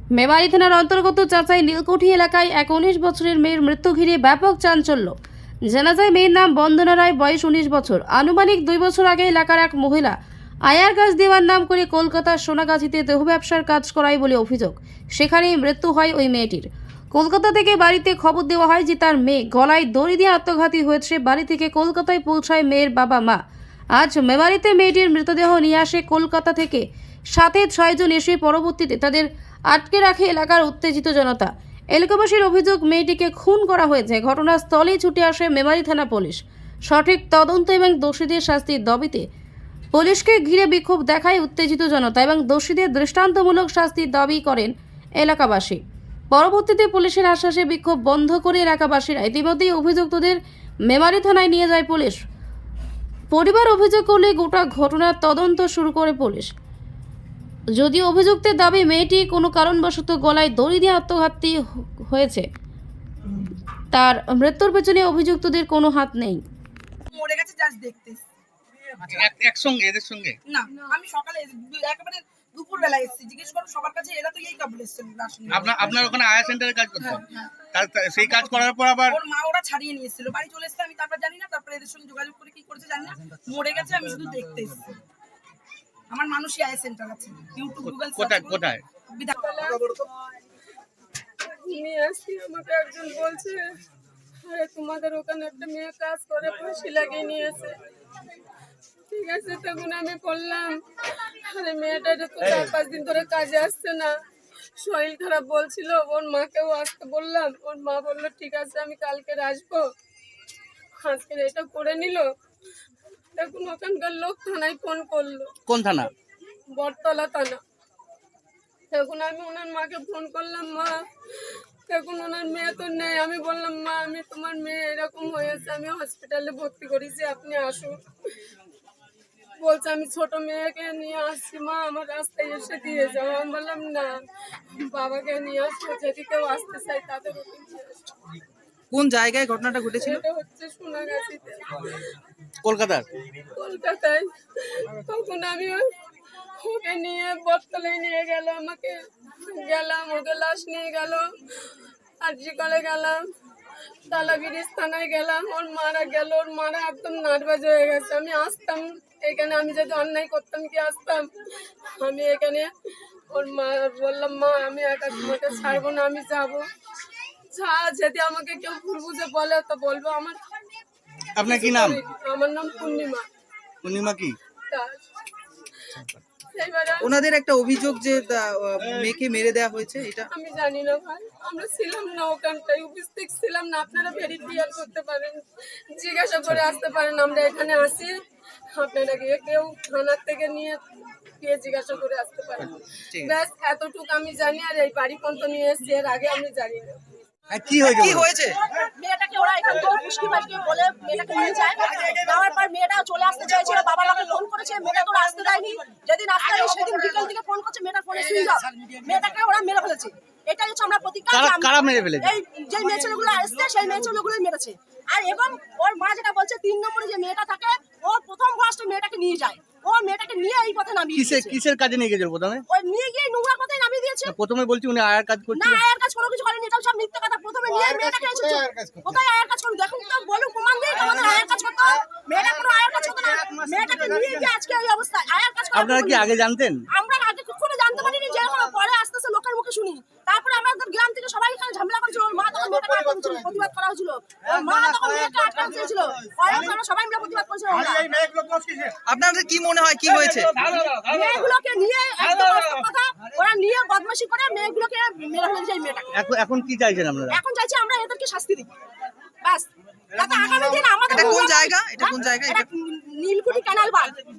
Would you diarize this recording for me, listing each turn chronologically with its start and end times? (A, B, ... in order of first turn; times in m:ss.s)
0:00.1-0:05.1 A
0:05.7-0:23.4 A
0:24.0-0:39.2 A
0:39.9-0:45.8 A
0:46.3-0:52.2 A
0:53.3-0:56.5 A
0:57.7-1:02.5 A
1:03.9-1:06.4 A
1:07.1-1:08.2 B
1:09.0-1:10.4 C
1:10.5-1:16.0 B
1:15.5-1:19.2 C
1:17.0-1:17.4 B
1:19.1-1:24.9 B
1:26.1-1:28.6 B
1:27.8-1:28.8 C
1:29.2-1:29.8 D
1:29.7-1:30.0 E
1:31.6-1:33.7 D
1:34.4-1:37.8 D
1:39.1-1:44.1 D
1:44.8-1:49.9 D
1:51.0-1:52.3 D
1:53.4-1:55.5 D
1:55.7-1:56.1 C
1:56.8-1:57.6 D
1:58.9-2:01.0 D
2:01.9-2:08.0 D
2:09.6-2:14.1 D
2:14.9-2:18.0 D
2:18.9-2:20.2 E
2:20.0-2:22.0 D
2:22.6-2:23.0 C
2:23.6-2:25.8 D
2:26.6-2:31.3 D
2:32.2-2:33.2 D
2:34.1-2:41.3 D
2:42.0-2:42.7 D
2:43.3-2:46.7 D
2:47.5-2:50.4 D
2:51.3-2:52.0 C
2:51.4-2:53.2 D
2:53.8-2:54.4 C
2:54.7-2:55.0 D
2:56.5-2:57.1 D
2:57.0-3:00.3 E
3:00.3-3:08.2 D
3:08.7-3:17.0 D
3:17.5-3:18.3 C
3:17.9-3:18.6 E
3:18.5-3:41.6 F
3:31.3-3:32.3 C
3:41.1-3:42.6 C
3:42.7-3:44.3 F
3:44.2-3:45.8 C
3:45.5-3:56.4 F
3:55.7-3:56.8 C
3:56.9-4:08.3 F
4:09.0-4:10.5 E
4:10.8-4:16.1 F
4:16.1-4:17.4 C
4:17.3-4:18.7 F
4:19.4-4:24.2 F
4:21.1-4:22.7 E